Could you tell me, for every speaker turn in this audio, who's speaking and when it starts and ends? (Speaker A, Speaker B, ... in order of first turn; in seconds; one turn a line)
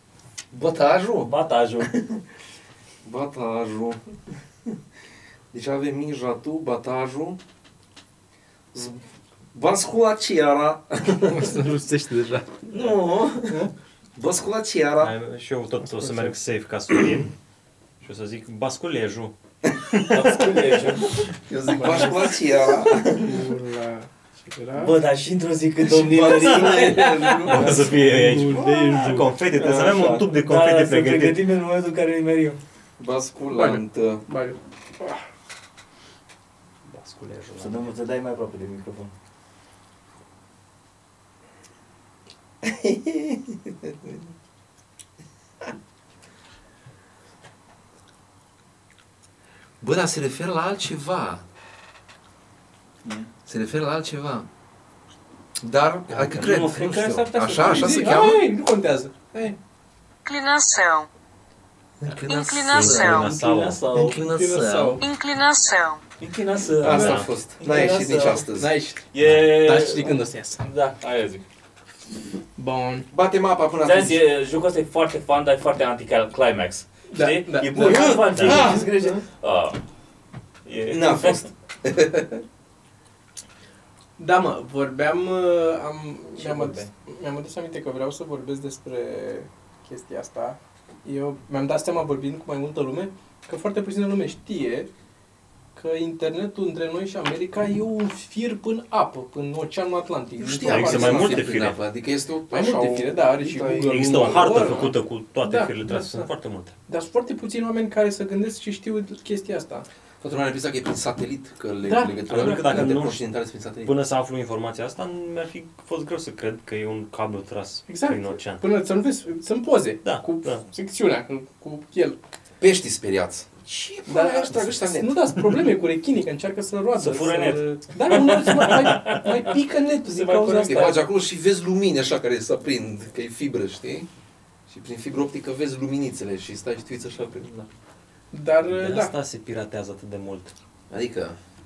Speaker A: 0.5-2.2
Speaker B: 1.2-1.9
Speaker A: 3.0-4.1
Speaker A: 5.5-7.4
Speaker A: 8.7-11.5
Speaker C: 11.2-12.6
Speaker A: 12.7-15.1
Speaker D: 15.0-17.4
Speaker C: 15.9-16.4
Speaker D: 18.0-19.3
Speaker B: 20.0-21.3
Speaker A: 21.2-23.4
Speaker C: 21.7-22.4
Speaker C: 23.1-24.9
Speaker B: 24.8-27.8
Speaker A: 25.8-28.6
Speaker D: 26.3-31.4
Speaker C: 27.8-29.3
Speaker A: 29.5-30.3
Speaker B: 29.6-32.6
Speaker A: 33.0-34.2
Speaker C: 33.5-35.2
Speaker D: 36.9-37.9
Speaker B: 37.6-39.1
Speaker A: 42.6-44.1
Speaker A: 49.8-51.4
Speaker B: 53.0-53.3
Speaker A: 53.5-54.5
Speaker A: 55.6-58.5
Speaker B: 56.2-58.0
Speaker C: 57.4-59.6
Speaker E: 60.2-61.1
Speaker A: 62.0-63.2
Speaker E: 62.3-63.3
Speaker D: 62.7-63.8
Speaker B: 63.0-64.2
Speaker A: 63.8-65.0
Speaker C: 64.1-65.0
Speaker E: 65.0-66.0
Speaker B: 66.2-68.5
Speaker A: 66.8-68.8
Speaker C: 66.8-67.9
Speaker D: 66.9-67.3
Speaker C: 68.5-70.7
Speaker B: 69.1-71.5
Speaker C: 72.6-73.1
Speaker A: 73.1-74.2
Speaker B: 73.8-79.8
Speaker C: 77.1-78.6
Speaker A: 77.7-78.9
Speaker D: 78.3-78.7
Speaker B: 80.7-81.5
Speaker A: 80.9-82.4
Speaker C: 84.2-94.9
Speaker B: 86.4-86.9
Speaker C: 95.8-101.5
Speaker A: 100.4-104.9
Speaker D: 100.7-101.8
Speaker C: 102.5-106.3
Speaker D: 103.9-106.7
Speaker C: 106.9-109.9
Speaker A: 110.2-113.9
Speaker C: 111.8-112.9
Speaker D: 112.3-113.2
Speaker D: 113.8-118.6
Speaker C: 117.9-122.2
Speaker D: 120.0-120.6
Speaker A: 122.6-125.5
Speaker C: 124.1-131.0
Speaker B: 127.0-129.6
Speaker B: 130.1-131.0
Speaker A: 130.5-134.1
Speaker A: 134.7-137.7
Speaker C: 138.3-139.2
Speaker D: 138.7-140.5
Speaker A: 140.9-141.4